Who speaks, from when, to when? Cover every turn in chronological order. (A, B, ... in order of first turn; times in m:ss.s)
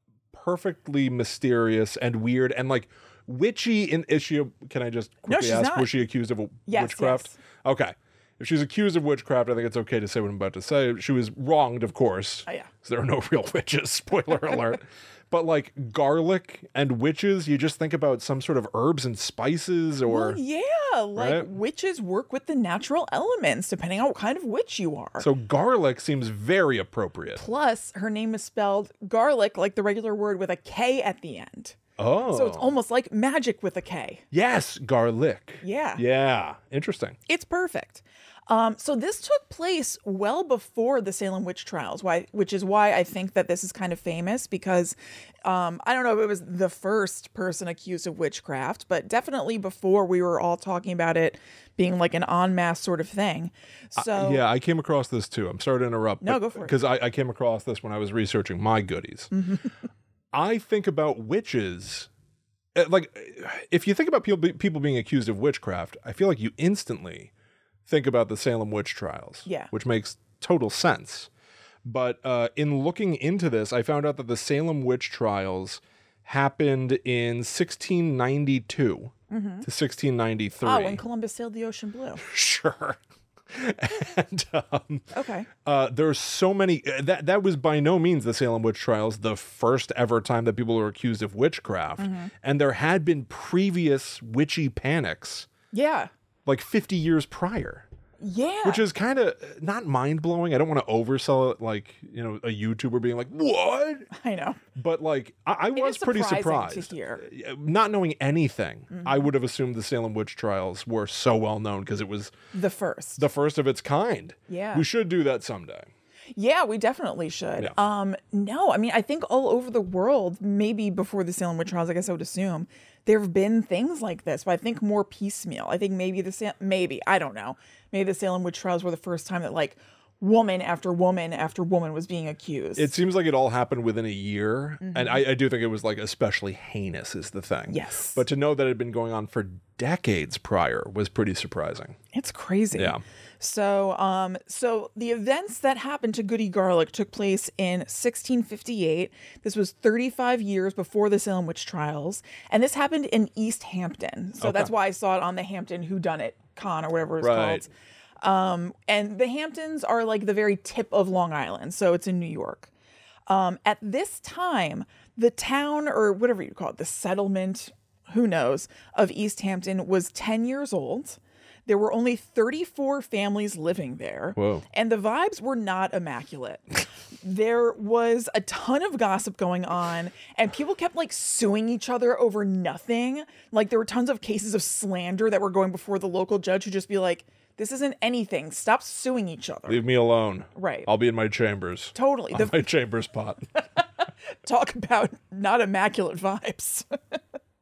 0:00.3-0:20.4 A
0:05.3-0:05.9 B
0:06.7-0:07.4 B
0:20.0-0:25.3 B
0:21.2-0:21.5 A
0:25.2-0:27.4 A
0:27.4-0:31.8 B
0:32.0-0:32.7 A
0:32.3-0:34.2 B
0:34.3-0:37.2 A
0:35.6-0:36.0 B
0:37.3-0:54.4 B
0:54.0-0:59.3 A
0:56.2-0:56.7 B
0:59.3-0:59.6 B
1:00.3-1:02.1 A
1:02.7-1:07.3 A
1:07.8-1:11.3 A
1:09.4-1:09.7 B
1:11.8-1:21.0 A
1:19.3-1:19.6 B
1:20.6-1:22.2 B
1:22.2-1:23.0 A
1:23.5-1:25.1 A
1:25.1-1:25.5 B
1:25.6-1:35.5 A
1:32.0-1:32.3 B
1:35.7-1:36.1 B
1:36.4-1:37.8 A
1:38.2-1:38.8 B
1:38.6-1:44.1 A
1:44.1-1:44.6 B
1:44.7-1:52.3 A
1:45.7-1:47.2 B
1:48.9-1:49.3 B
1:52.5-1:53.2 B
1:53.2-1:55.9 A
1:54.5-1:54.8 B
1:56.3-2:12.9 B
2:12.8-2:22.0 A
2:14.8-2:15.2 B
2:17.7-2:18.2 B
2:22.1-2:37.7 B
2:22.7-2:23.0 A
2:34.4-2:34.7 A
2:37.2-2:37.7 A
2:38.2-2:42.7 B
2:43.3-3:09.8 B
2:54.4-2:54.6 A
3:09.7-3:13.6 A
3:10.5-3:10.9 B
3:11.9-3:12.6 B
3:13.8-3:17.2 B